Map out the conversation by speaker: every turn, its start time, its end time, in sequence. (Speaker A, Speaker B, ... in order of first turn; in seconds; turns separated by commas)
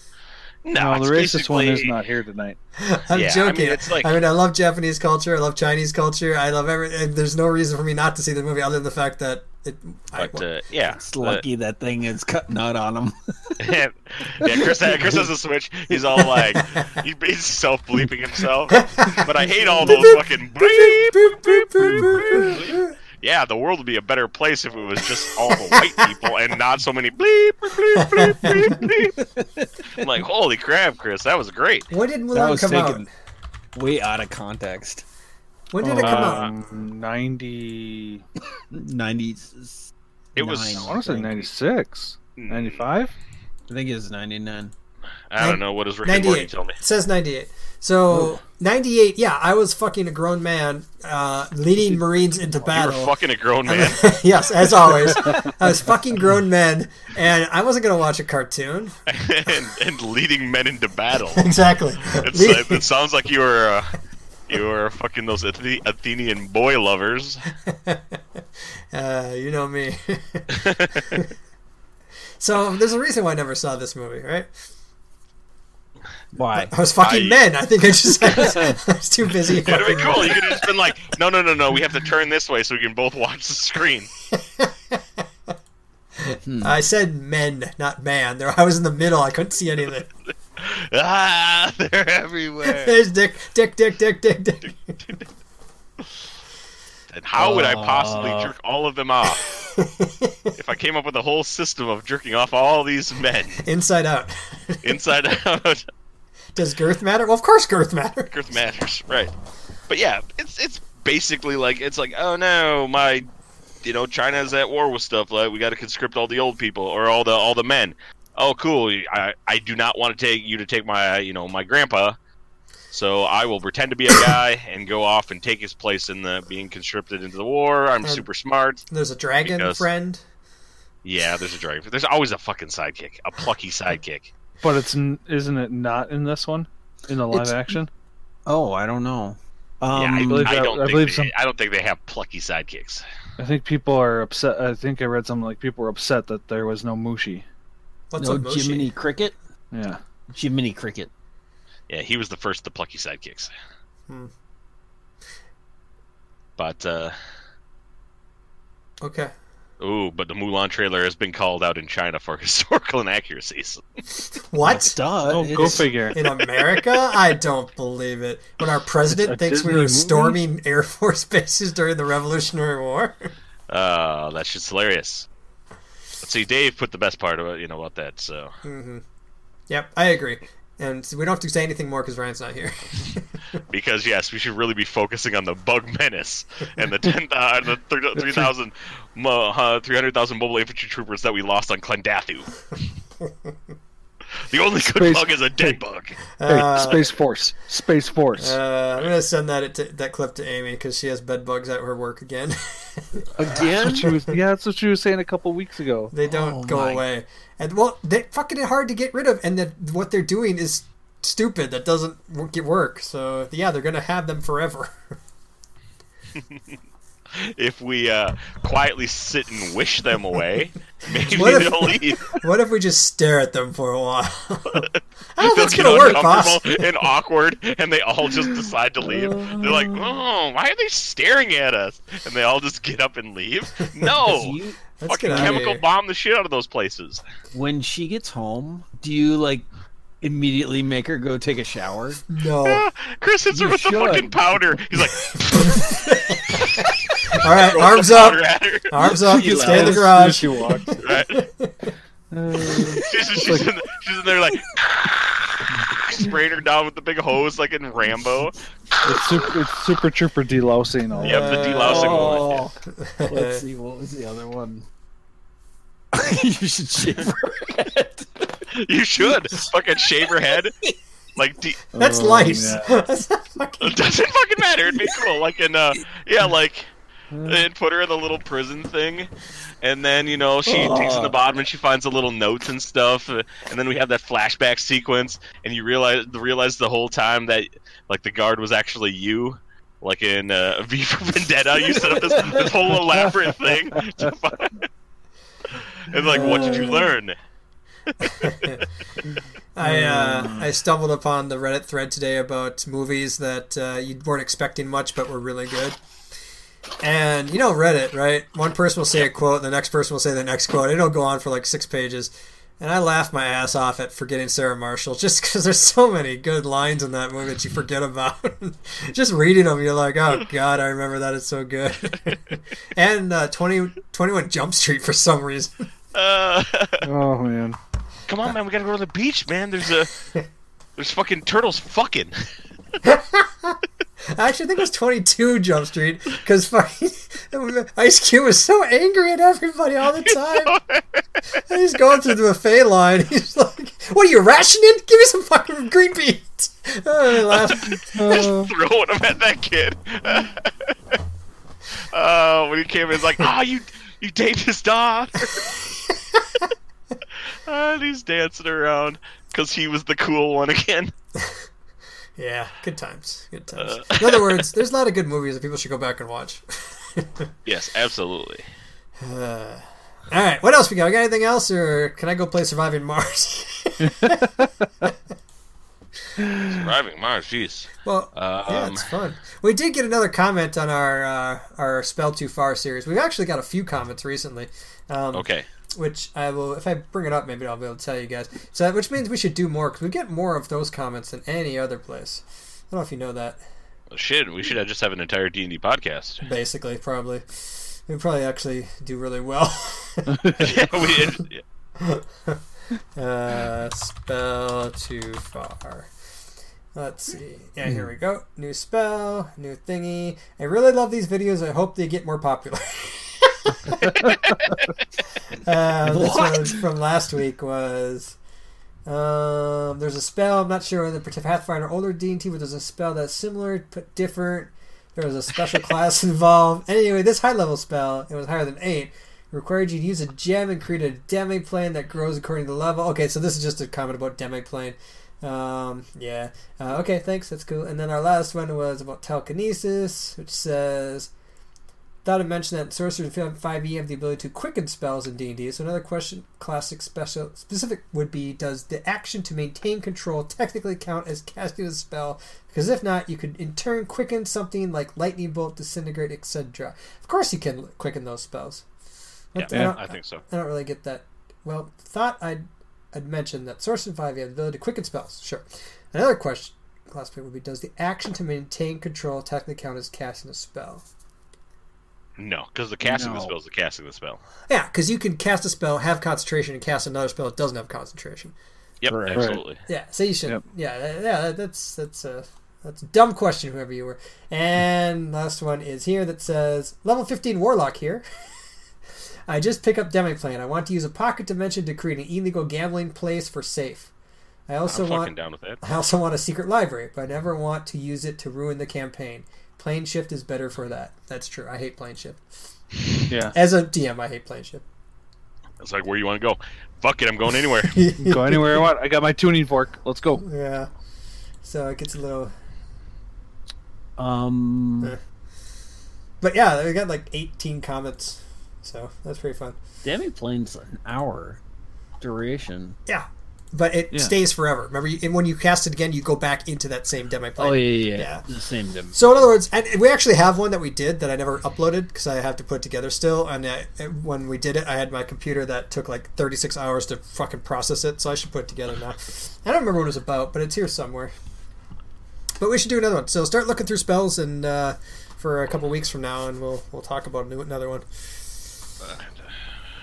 Speaker A: 0.7-1.9, Speaker B: 0.8-2.6, Speaker C: 2.8-10.4, Speaker A: 3.1-4.2, Speaker A: 10.2-11.4, Speaker D: 10.9-13.6, Speaker A: 13.6-29.1, Speaker D: 14.4-15.2, Speaker C: 18.7-19.3, Speaker C: 19.8-22.9, Speaker D: 19.8-20.1, Speaker D: 21.8-22.1, Speaker C: 25.5-26.1, Speaker C: 27.9-28.7, Speaker D: 28.5-30.1, Speaker A: 29.9-31.9, Speaker C: 31.9-33.1, Speaker D: 32.3-33.1, Speaker D: 33.7-35.0, Speaker C: 35.7-36.5, Speaker B: 35.8-38.2, Speaker A: 36.0-36.5, Speaker D: 38.7-41.5, Speaker A: 40.4-40.9, Speaker B: 40.7-43.1, Speaker A: 42.4-42.8, Speaker D: 43.7-44.7, Speaker A: 45.3-46.8, Speaker C: 45.4-53.1, Speaker A: 52.7-54.1, Speaker C: 53.7-59.0, Speaker B: 55.1-55.5, Speaker A: 59.1-61.5, Speaker C: 61.4-62.8, Speaker A: 62.1-64.0, Speaker A: 64.5-67.5, Speaker C: 67.7-68.2, Speaker C: 68.9-71.3, Speaker A: 70.5-71.2, Speaker C: 72.4-74.5, Speaker D: 76.3-76.7, Speaker C: 76.6-80.6, Speaker A: 77.0-77.4, Speaker D: 78.4-78.7, Speaker A: 79.6-84.1, Speaker C: 84.3-85.0, Speaker C: 86.2-90.1, Speaker D: 86.5-86.8, Speaker A: 90.6-93.0, Speaker C: 92.6-94.7, Speaker A: 94.6-95.2, Speaker A: 97.1-99.5, Speaker D: 97.4-98.5, Speaker C: 99.8-100.5, Speaker A: 100.5-103.6, Speaker C: 103.7-104.9, Speaker A: 104.8-105.8, Speaker C: 106.6-108.3, Speaker A: 108.3-109.3, Speaker A: 109.9-113.3, Speaker A: 113.8-122.2, Speaker A: 122.9-128.9, Speaker C: 128.9-130.2, Speaker A: 129.4-129.9, Speaker A: 131.0-134.3, Speaker B: 134.6-137.9, Speaker D: 137.3-137.7, Speaker D: 138.5-140.5, Speaker A: 139.9-143.0, Speaker B: 140.1-141.3, Speaker B: 143.4-147.4, Speaker C: 148.1-148.9, Speaker D: 148.2-149.4, Speaker B: 149.7-150.0, Speaker D: 150.3-151.1, Speaker A: 151.9-153.5, Speaker A: 156.6-157.2, Speaker C: 159.0-159.3, Speaker A: 159.8-163.8, Speaker C: 164.4-165.0, Speaker D: 164.6-165.9, Speaker B: 165.3-166.2, Speaker C: 166.1-173.3, Speaker B: 169.1-170.4, Speaker A: 173.7-175.3, Speaker A: 176.2-178.5, Speaker C: 178.6-179.0, Speaker C: 179.7-183.3, Speaker A: 183.7-192.6, Speaker B: 188.2-188.5, Speaker A: 194.4-196.2, Speaker B: 194.9-195.8, Speaker C: 196.4-197.1, Speaker B: 196.5-198.6, Speaker C: 198.4-204.2, Speaker D: 203.4-204.2, Speaker B: 203.5-206.1, Speaker C: 206.1-215.0, Speaker D: 206.2-207.1, Speaker A: 217.3-222.3, Speaker C: 221.3-224.9, Speaker A: 224.7-237.2, Speaker C: 225.4-226.9, Speaker B: 229.3-229.7, Speaker D: 234.1-234.8, Speaker C: 235.0-235.8, Speaker D: 237.5-239.7, Speaker D: 240.2-242.2, Speaker C: 242.3-242.8, Speaker A: 242.6-248.9, Speaker D: 243.5-244.4, Speaker C: 245.6-251.9, Speaker D: 249.2-250.4, Speaker B: 249.3-251.0, Speaker A: 251.0-251.5, Speaker B: 252.3-253.7, Speaker C: 252.7-253.1, Speaker A: 253.0-258.6, Speaker B: 259.1-261.8, Speaker C: 261.2-262.4, Speaker A: 261.2-262.6, Speaker D: 261.8-262.8, Speaker C: 263.0-263.6, Speaker D: 263.3-264.9, Speaker D: 266.1-268.5, Speaker A: 268.7-270.8, Speaker A: 271.4-271.8, Speaker B: 271.9-273.0, Speaker C: 272.0-274.0, Speaker A: 273.8-276.9, Speaker B: 277.3-277.6, Speaker A: 277.4-294.9, Speaker D: 280.6-281.4, Speaker D: 292.1-292.6, Speaker B: 293.9-294.3, Speaker A: 295.7-297.4, Speaker B: 296.3-297.0, Speaker C: 296.4-297.0, Speaker C: 298.2-298.9, Speaker C: 299.8-306.0, Speaker B: 299.9-300.6, Speaker D: 300.2-300.6, Speaker C: 307.0-325.9, Speaker A: 326.1-327.1, Speaker B: 327.0-327.8, Speaker A: 328.3-330.1, Speaker A: 331.0-332.4, Speaker C: 333.0-333.8, Speaker C: 334.3-340.8, Speaker A: 340.2-341.0, Speaker C: 341.7-348.3, Speaker A: 347.5-351.2, Speaker B: 348.1-348.7, Speaker A: 352.1-355.7, Speaker C: 356.3-356.6, Speaker A: 357.7-361.1, Speaker C: 362.4-367.5, Speaker A: 363.8-364.6, Speaker A: 367.7-368.6, Speaker C: 369.2-374.5, Speaker B: 374.0-375.1, Speaker B: 376.4-376.7, Speaker A: 376.7-379.1, Speaker C: 378.0-393.6, Speaker A: 385.3-385.7, Speaker A: 394.1-396.4, Speaker C: 396.4-401.3, Speaker B: 400.3-400.8, Speaker A: 400.6-401.6, Speaker C: 402.0-402.6, Speaker C: 403.2-406.1, Speaker C: 406.9-414.4, Speaker B: 414.0-414.8, Speaker C: 415.5-418.4, Speaker D: 416.1-416.8, Speaker C: 419.1-441.3, Speaker C: 442.2-458.9, Speaker C: 459.6-471.1, Speaker A: 459.6-460.4, Speaker B: 459.7-460.0, Speaker A: 472.4-474.4, Speaker D: 473.0-473.6, Speaker C: 474.7-478.6, Speaker A: 479.0-479.8, Speaker D: 479.1-479.5, Speaker B: 479.4-479.6, Speaker C: 479.9-488.2, Speaker C: 489.5-494.1, Speaker C: 494.7-502.4, Speaker A: 494.9-495.8, Speaker B: 503.3-503.6, Speaker C: 503.5-504.8, Speaker A: 505.8-508.0, Speaker C: 507.8-508.9, Speaker B: 508.2-510.4, Speaker C: 510.4-510.9, Speaker C: 511.6-512.5, Speaker D: 514.2-515.2, Speaker C: 516.4-519.8, Speaker D: 520.0-521.6, Speaker D: 522.2-523.0, Speaker C: 523.1-528.5, Speaker D: 527.6-529.2, Speaker C: 529.1-541.3, Speaker C: 542.6-548.1, Speaker A: 549.0-549.5